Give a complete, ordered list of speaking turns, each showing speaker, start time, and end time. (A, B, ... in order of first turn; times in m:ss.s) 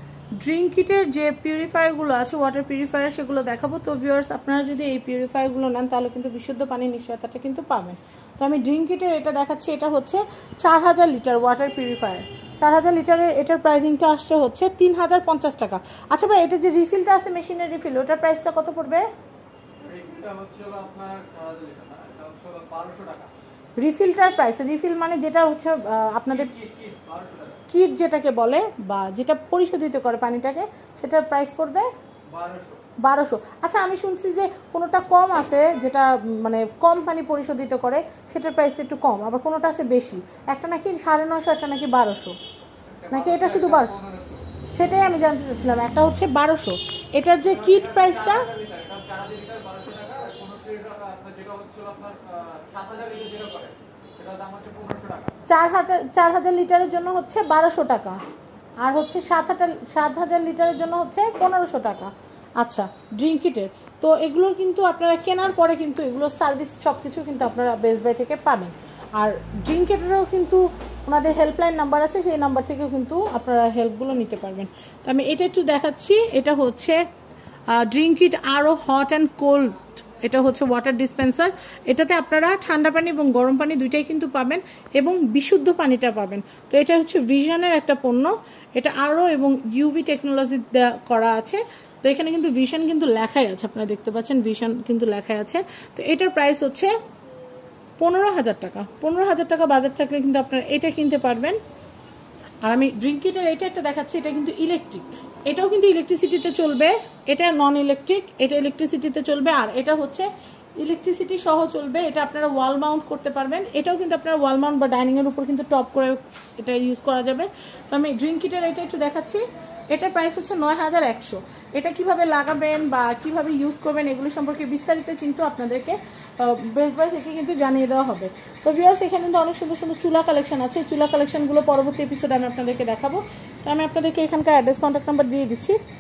0:00.4-0:19.1 A
0:19.8-0:23.3 B
0:23.8-0:26.5 A
0:26.3-0:27.6 B
0:27.7-0:31.9 A
0:32.3-0:32.8 B
0:33.0-0:42.4 A
0:43.0-0:44.4 B
0:43.1-0:44.0 A
0:44.7-0:48.5 A
0:47.4-0:55.4 B
0:55.5-0:58.2 A
0:58.8-1:17.0 A
1:17.7-1:36.9 A
1:38.0-1:41.6 A
1:42.6-2:15.8 A